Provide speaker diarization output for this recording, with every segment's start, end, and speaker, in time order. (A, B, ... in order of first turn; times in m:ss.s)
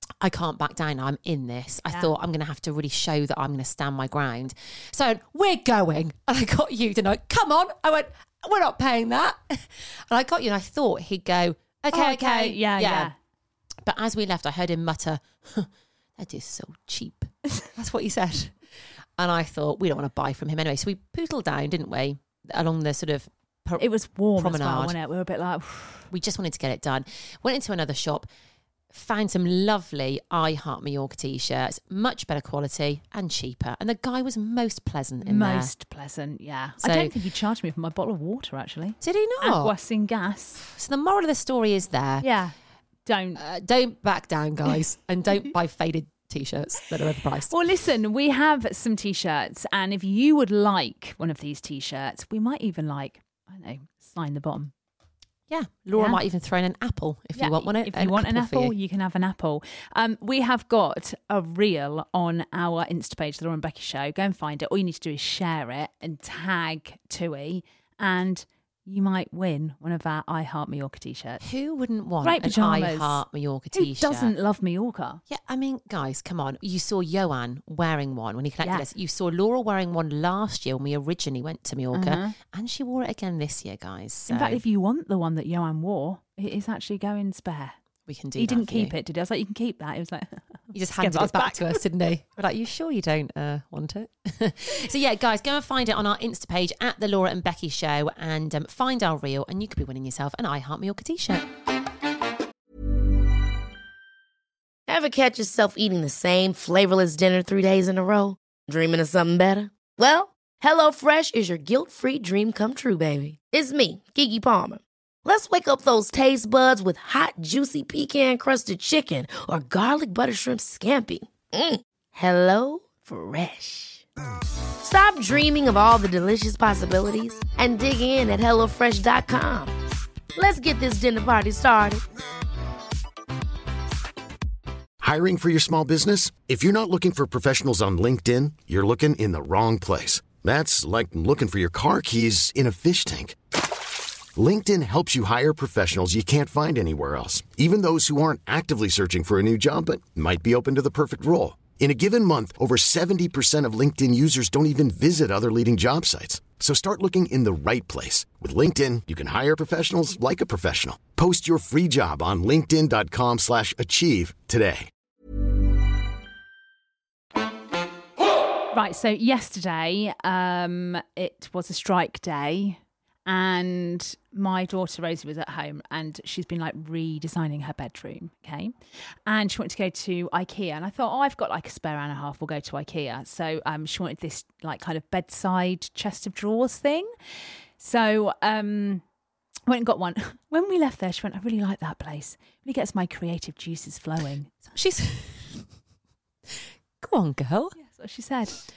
0:00.2-0:13.1 A
0:11.9-0:13.1 B
0:13.8-0:18.6 A
0:19.2-0:23.8 A
0:23.8-0:26.1 B
0:24.4-0:25.0 A
0:26.1-0:28.3 A
0:28.9-0:35.7 A
0:35.2-0:40.6 B
0:36.8-0:37.1 A
0:39.0-0:39.7 A
0:40.7-0:42.3 A
0:42.2-0:42.5 B
0:43.1-0:43.4 B
0:43.4-0:47.5 A
0:47.5-0:54.7 B
0:55.5-0:58.7 A
0:56.0-0:56.2 B
0:57.4-1:11.4 B
1:11.4-1:14.3 A
1:12.2-1:13.2 B
1:13.7-1:15.2 B
1:15.3-1:24.6 A
1:21.9-1:22.4 B
1:24.3-1:27.8 B
1:28.1-1:28.9 A
1:28.4-1:31.8 B
1:30.7-1:41.5 A
1:44.9-2:04.0 C
2:04.8-2:09.7 C
2:10.4-2:12.0 C
2:15.0-2:23.4 D
2:24.4-2:44.9 D
2:48.7-2:58.7 B
2:59.3-3:07.1 B
3:07.8-3:09.0 B
3:09.7-3:14.6 B
3:14.7-3:15.7 A
3:16.5-3:17.8 A
3:17.8-3:18.6 B